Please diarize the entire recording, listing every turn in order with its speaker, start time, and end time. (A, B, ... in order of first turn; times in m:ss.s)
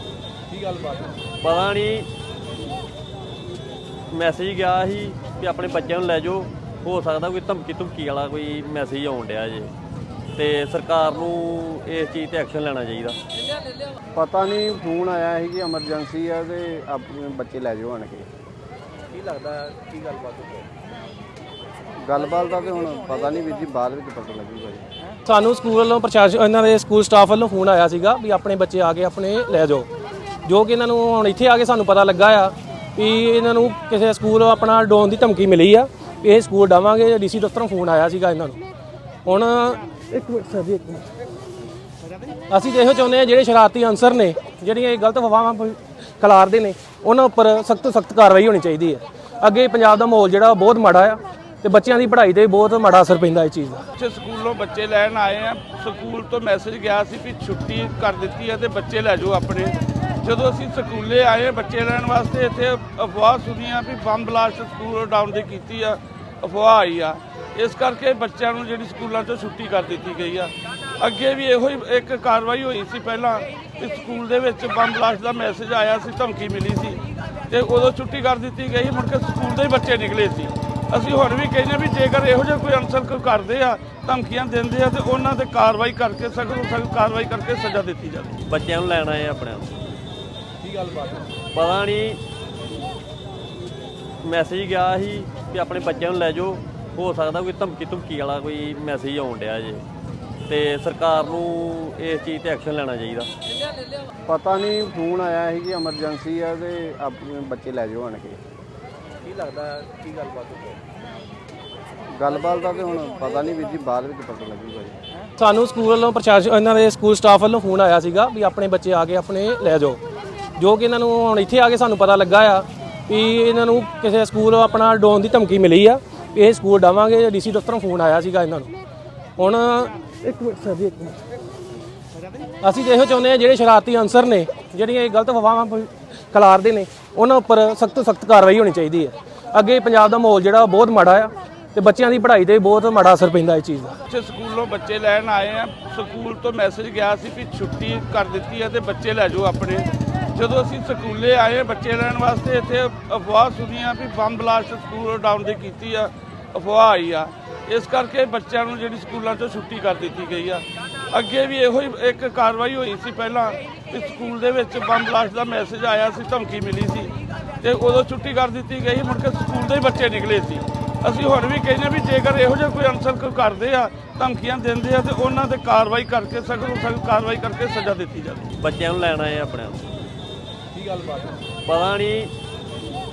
0:00.5-0:01.1 A
0:01.4-0:02.1 B
0:04.1-0:09.7 B
0:10.3-0:13.2 B
0:14.1-0:18.3 C
0:19.1-0:20.6 A
0:22.0-0:24.8 C
0:25.2-0:29.9 D
0:30.4-0:38.6 D
0:39.2-0:41.0 D
0:42.5-0:53.9 D
0:54.0-1:28.3 E
0:55.4-0:55.8 A
1:02.6-1:02.9 A
1:05.3-1:05.9 A
1:09.9-1:10.4 A
1:19.2-1:21.9 A
1:22.5-1:24.0 A
1:24.8-1:25.2 A
1:25.9-1:26.7 A
1:27.5-1:28.2 A
1:28.4-1:29.7 B
1:30.6-1:31.3 A
1:31.5-1:32.2 B
1:34.2-1:39.8 B
1:40.5-1:43.3 B
1:44.3-1:48.4 C
1:49.2-1:50.8 A
1:52.1-1:55.0 C
1:55.4-2:00.0 D
2:00.6-2:08.7 D
2:09.4-2:11.2 D
2:12.6-2:24.0 D
2:24.1-2:58.4 E
2:32.6-2:33.0 A
2:35.4-2:35.9 A
2:50.0-2:50.7 A
2:53.6-2:54.1 A
2:54.9-2:55.2 A
2:58.5-2:59.8 B
3:00.7-3:01.4 A
3:01.6-3:02.3 B